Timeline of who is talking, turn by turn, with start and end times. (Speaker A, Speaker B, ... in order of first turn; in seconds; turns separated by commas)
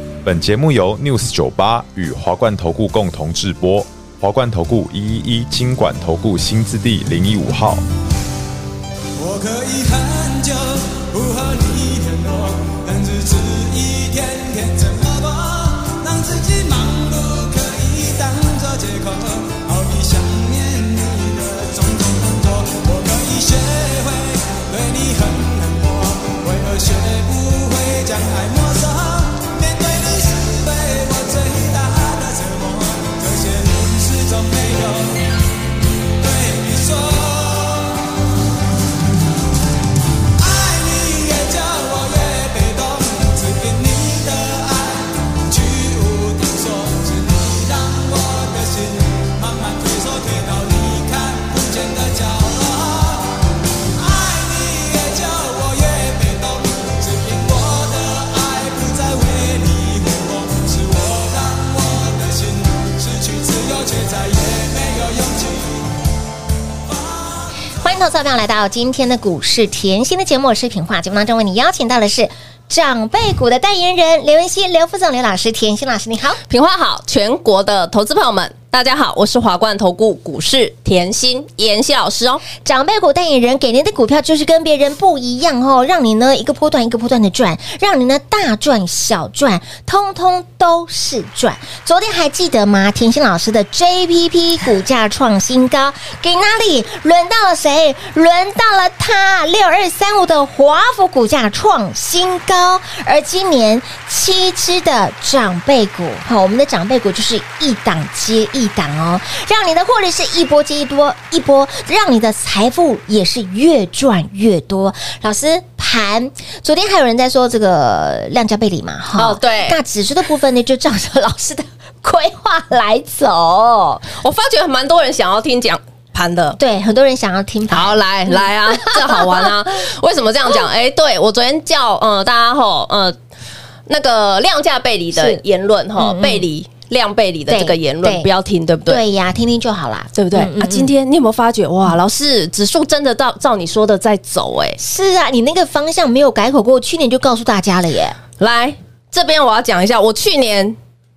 Speaker A: 0.2-7.8, Speaker B: 9.2-35.3, Speaker B: 36.2-38.1, Speaker B: 40.4-53.4, Speaker B: 54.0-65.8, Speaker C: 67.8-76.4, Speaker D: 76.5-82.4, Speaker C: 82.6-124.0, Speaker D: 119.2-119.8, Speaker D: 124.1-126.6, Speaker C: 126.6-129.5, Speaker D: 127.7-133.2, Speaker D: 133.9-139.0, Speaker C: 135.1-135.4, Speaker C: 136.0-136.5, Speaker C: 137.5-138.3, Speaker C: 138.9-140.9, Speaker D: 140.1-144.8, Speaker C: 144.8-148.2, Speaker D: 148.4-150.8